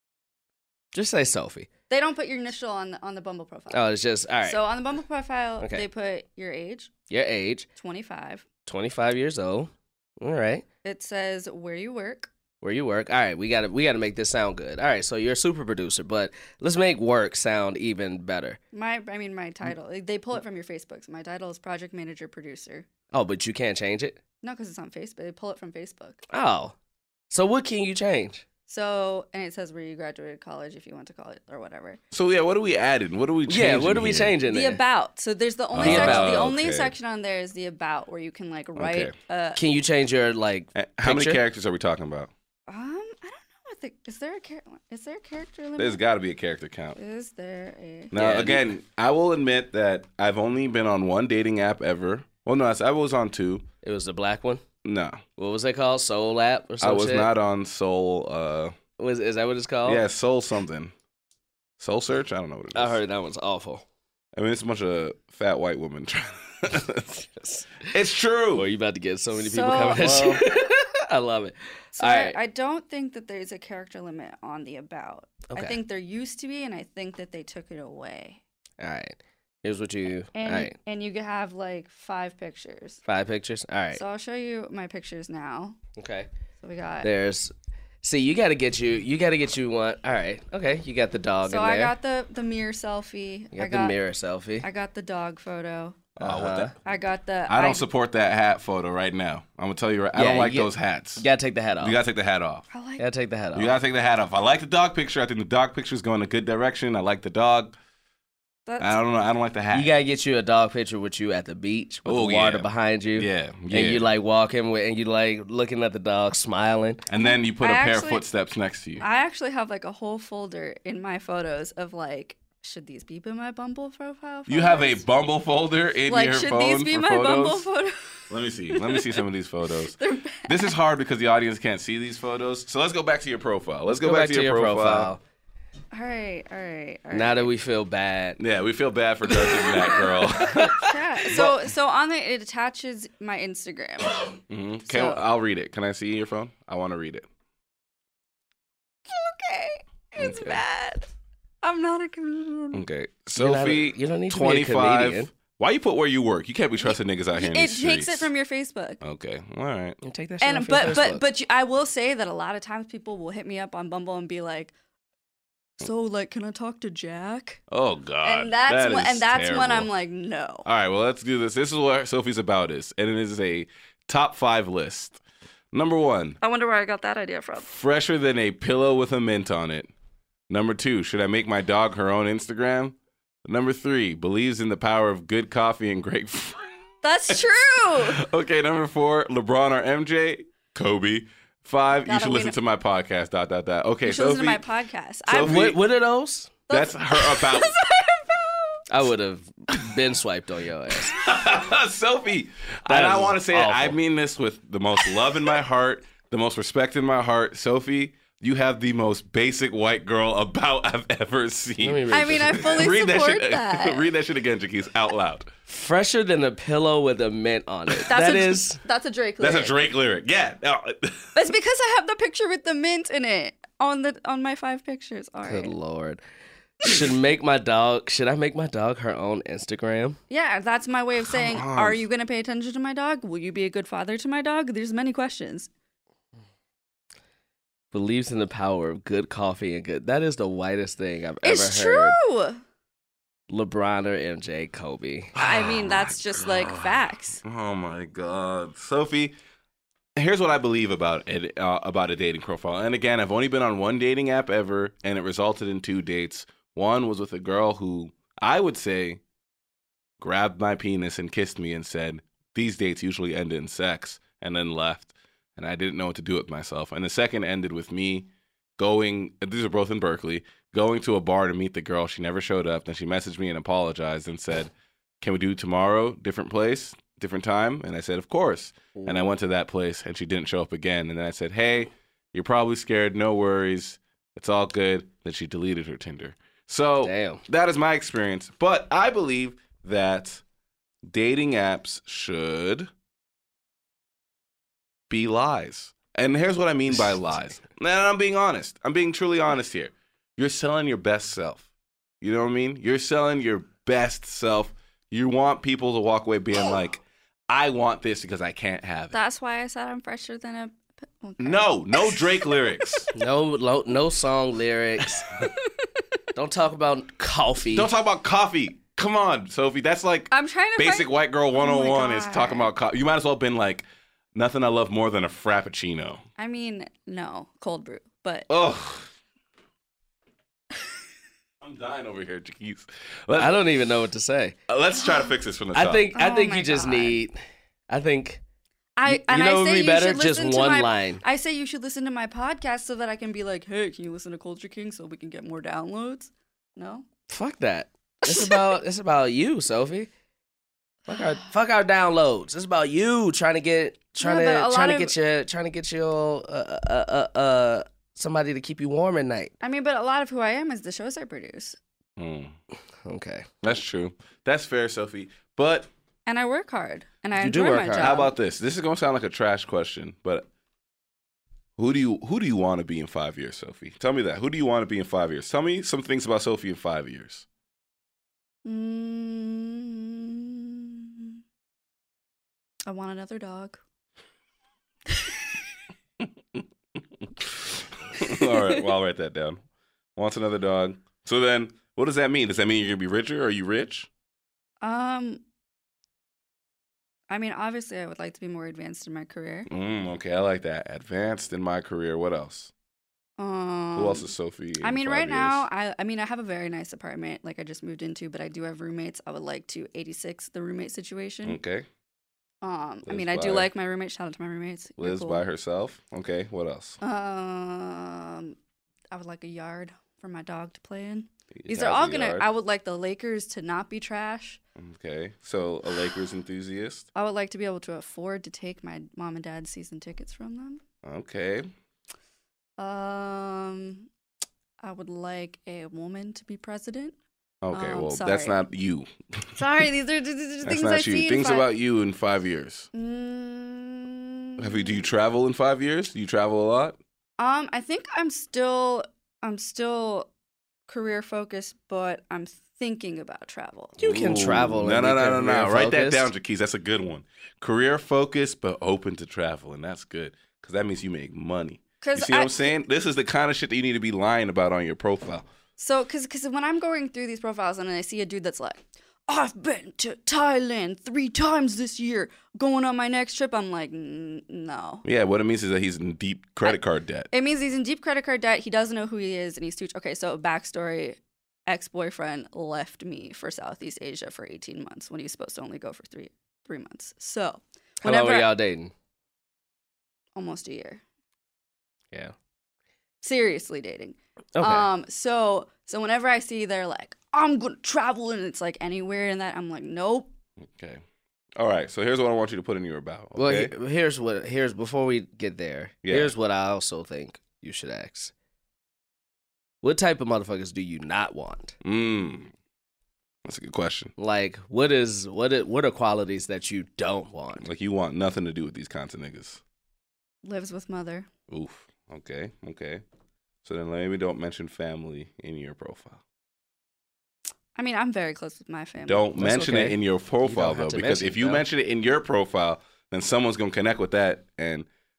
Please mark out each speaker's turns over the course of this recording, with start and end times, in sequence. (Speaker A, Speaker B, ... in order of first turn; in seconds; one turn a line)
Speaker A: 0.9-1.7
Speaker B: 1.9-3.8
Speaker A: 3.7-4.6
Speaker B: 4.4-6.9
Speaker A: 5.6-5.9
Speaker A: 7.1-7.7
Speaker B: 7.8-8.5
Speaker A: 8.7-10.6
Speaker B: 10.8-12.3
Speaker A: 12.6-18.6
Speaker B: 18.7-22.9
Speaker A: 23.1-24.2
Speaker B: 24.4-26.2
Speaker A: 26.3-26.8
Speaker A: 27.3-28.4
Speaker B: 28.7-32.0
Speaker C: 32.1-34.4
Speaker A: 33.5-34.8
Speaker B: 34.5-39.6
Speaker C: 35.8-36.9
Speaker A: 35.8-36.4
Speaker C: 38.8-39.1
Speaker A: 39.6-41.4
Speaker C: 40.8-42.3
Speaker B: 42.7-46.0
Speaker C: 45.8-47.0
Speaker B: 47.0-48.1
Speaker C: 48.1-53.6
Speaker A: 48.1-48.7
Speaker A: 53.8-54.6
Speaker C: 54.8-55.2
Speaker A: 55.4-57.3
Speaker C: 56.8-58.7
Speaker A: 59.0-60.0
Speaker C: 59.9-60.9
Speaker C: 61.8-63.0
Speaker A: 62.7-63.8
Speaker C: 64.4-67.3
Speaker A: 67.4-67.7
Speaker C: 67.9-68.7
Speaker A: 68.5-72.4
Speaker B: 69.4-70.4
Speaker B: 72.0-78.4
Speaker A: 75.5-75.8
Speaker A: 78.8-80.8
Speaker B: 80.3-83.0
Speaker A: 83.1-84.0
Speaker B: 83.9-85.8
Speaker A: 86.0-86.3
Speaker B: 86.6-87.1
Speaker A: 87.0-91.9
Speaker B: 91.5-94.0
Speaker A: 93.5-94.7
Speaker B: 94.6-96.0
Speaker C: 96.2-96.9
Speaker A: 96.2-96.7
Speaker B: 96.8-97.8
Speaker C: 97.5-101.2
Speaker A: 100.2-102.0
Speaker C: 101.8-102.7
Speaker B: 102.7-103.0
Speaker A: 103.0-103.7
Speaker C: 103.5-107.8
Speaker B: 108.7-109.0
Speaker C: 108.8-109.9
Speaker A: 109.7-117.0
Speaker C: 112.0-114.1
Speaker C: 117.1-119.0
Speaker B: 117.1-118.2
Speaker B: 119.0-125.0
Speaker C: 124.5-127.7
Speaker B: 126.1-129.2
Speaker C: 128.3-135.1
Speaker B: 129.9-130.8
Speaker A: 133.9-135.2
Speaker B: 135.9-137.5
Speaker A: 137.1-138.4
Speaker C: 138.4-140.9
Speaker B: 139.3-145.3
Speaker C: 144.5-147.3
Speaker B: 149.1-151.1
Speaker C: 150.2-150.6
Speaker B: 151.6-152.8
Speaker C: 152.7-158.3
Speaker A: 153.3-155.3
Speaker B: 156.8-159.0
Speaker C: 159.0-160.0
Speaker A: 160.0-161.2
Speaker B: 160.4-164.7
Speaker B: 165.8-167.6
Speaker C: 167.7-169.9
Speaker B: 168.2-170.7
Speaker C: 170.7-175.2
Speaker C: 175.7-176.4
Speaker B: 176.4-177.7
Speaker C: 177.6-179.9
Speaker C: 180.5-186.6
Speaker B: 187.0-188.2
Speaker C: 187.3-194.6
Speaker B: 192.1-192.6
Speaker B: 194.0-195.8
Speaker C: 195.3-195.8
Speaker A: 195.4-196.5
Speaker B: 196.7-198.8
Speaker C: 196.7-197.8
Speaker A: 198.9-201.1
Speaker C: 201.1-215.5
Speaker A: 202.9-204.0
Speaker A: 211.8-212.9
Speaker B: 212.1-214.0
Speaker A: 215.7-218.8
Speaker B: 218.1-219.8
Speaker C: 219.4-221.3
Speaker B: 221.3-225.8
Speaker A: 225.4-226.2
Speaker A: 226.8-230.2
Speaker B: 230.3-235.7
Speaker C: 231.3-232.0
Speaker A: 237.9-242.2
Speaker B: 241.4-242.6
Speaker A: 243.5-245.3
Speaker C: 245.4-249.3
Speaker B: 245.4-247.4
Speaker C: 250.2-259.2
Speaker C: 260.2-290.4
Speaker A: 279.0-279.3
Speaker A: 287.0-287.4
Speaker C: 291.1-292.9
Speaker C: 295.1-301.6
Speaker C: 302.2-309.1
Speaker B: 309.1-313.1
Speaker C: 311.4-313.1
Speaker A: 313.1-315.3
Speaker A: 316.4-317.9
Speaker C: 317.7-326.2
Speaker B: 320.3-322.7
Speaker B: 326.4-328.5
Speaker C: 328.5-329.1
Speaker C: 331.6-333.6
Speaker A: 333.4-334.6
Speaker C: 334.7-336.1
Speaker B: 335.0-335.4
Speaker A: 335.7-337.4
Speaker B: 336.1-337.2
Speaker A: 337.9-338.4
Speaker B: 339.0-347.0
Speaker A: 339.1-341.2
Speaker A: 347.3-350.1
Speaker B: 348.3-348.7
Speaker A: 351.1-359.5
Speaker B: 354.2-355.1
Speaker B: 359.6-361.8
Speaker C: 362.2-362.5
Speaker A: 363.1-363.5
Speaker C: 363.6-365.9
Speaker B: 366.3-368.3
Speaker A: 367.4-368.2
Speaker C: 368.0-370.5
Speaker C: 371.8-377.5
Speaker B: 378.6-381.4
Speaker B: 382.9-383.8
Speaker C: 387.4-389.6
Speaker C: 390.2-394.1
Speaker B: 394.8-395.4
Speaker B: 397.3-399.7
Speaker C: 399.7-402.7
Speaker B: 403.4-404.3
Speaker C: 403.9-405.7
Speaker B: 404.8-411.6
Speaker C: 411.4-411.9
Speaker B: 412.6-415.4
Speaker C: 413.1-413.7
Speaker C: 415.0-417.0
Speaker B: 417.0-418.6
Speaker B: 419.1-424.6
Speaker C: 421.6-422.5
Speaker C: 424.8-427.1
Speaker B: 427.1-430.8
Speaker C: 431.0-431.7
Speaker B: 432.8-434.1
Speaker B: 434.8-437.1
Speaker C: 437.6-439.5
Speaker B: 437.7-438.6
Speaker B: 439.6-441.7
Speaker C: 440.6-442.9
Speaker B: 442.9-445.0
Speaker C: 444.6-447.0
Speaker B: 447.4-450.3
Speaker B: 450.9-454.0
Speaker A: 454.0-456.3
Speaker C: 454.0-465.5
Speaker B: 462.0-462.7
Speaker B: 465.8-475.0
Speaker C: 475.1-477.3
Speaker B: 477.3-488.5
Speaker A: 488.0-488.9
Speaker B: 490.4-491.0
Speaker B: 493.2-500.3
Speaker A: 494.6-494.9
Speaker C: 500.6-501.0
Speaker C: 501.6-503.7
Speaker A: 503.4-508.3
Speaker C: 506.0-506.3
Speaker A: 509.8-511.8
Speaker C: 511.8-512.5
Speaker C: 513.5-514.1
Speaker A: 514.2-517.7
Speaker C: 517.6-519.6
Speaker B: 520.4-521.3
Speaker C: 521.5-523.0
Speaker C: 523.6-526.2
Speaker B: 527.8-529.3
Speaker C: 529.1-534.9
Speaker A: 529.4-531.6